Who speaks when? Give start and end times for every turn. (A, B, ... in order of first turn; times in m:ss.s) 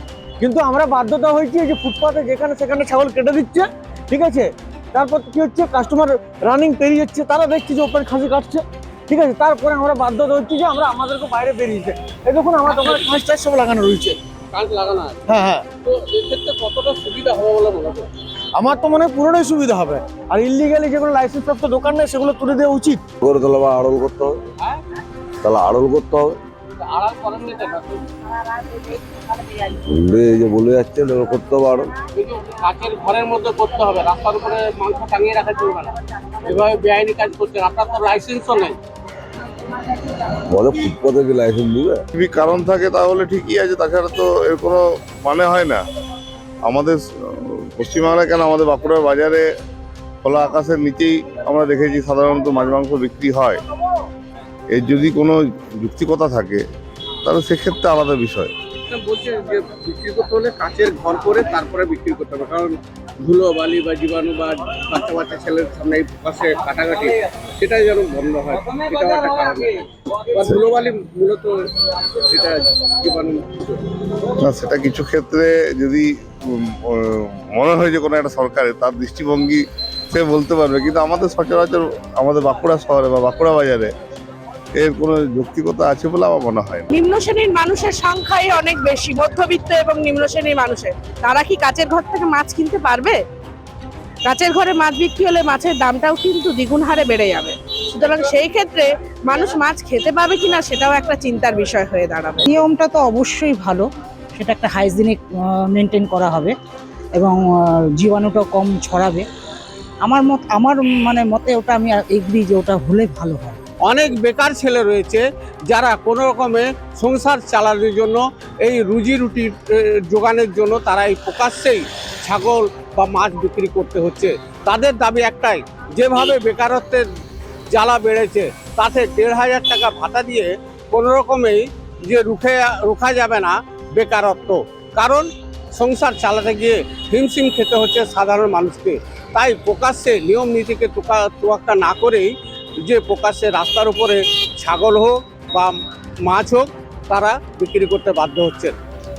0:00.4-0:14.2 A
0:14.5-0:15.2 B
0:15.3-0:15.6 A
0:15.8-0:18.1 B
0:18.6-0:23.0 A
0:23.2-0:24.4 C
0:25.4-0:26.4 C
0:26.8-0:28.0 B
0:29.9-0:31.9 C
0:32.2-0:38.8 B
0:40.5-0:42.0 C
0:42.1-0:45.8 D
0:46.7-0:49.4 D
0:50.2-0:53.6 D
0:54.7-0:56.6 D
0:57.2-0:58.5 D
0:58.9-1:11.6 B
1:12.2-1:13.9 B
1:14.4-1:23.9 D
1:24.8-1:26.9 D
1:26.9-1:33.2 E
1:34.2-1:42.6 E
1:42.5-1:46.6 F
1:47.2-1:49.3 F
1:50.0-1:53.6 F
1:53.9-2:07.0 B
2:07.7-2:22.3 B
2:22.8-2:25.7 B
2:26.2-2:28.8 B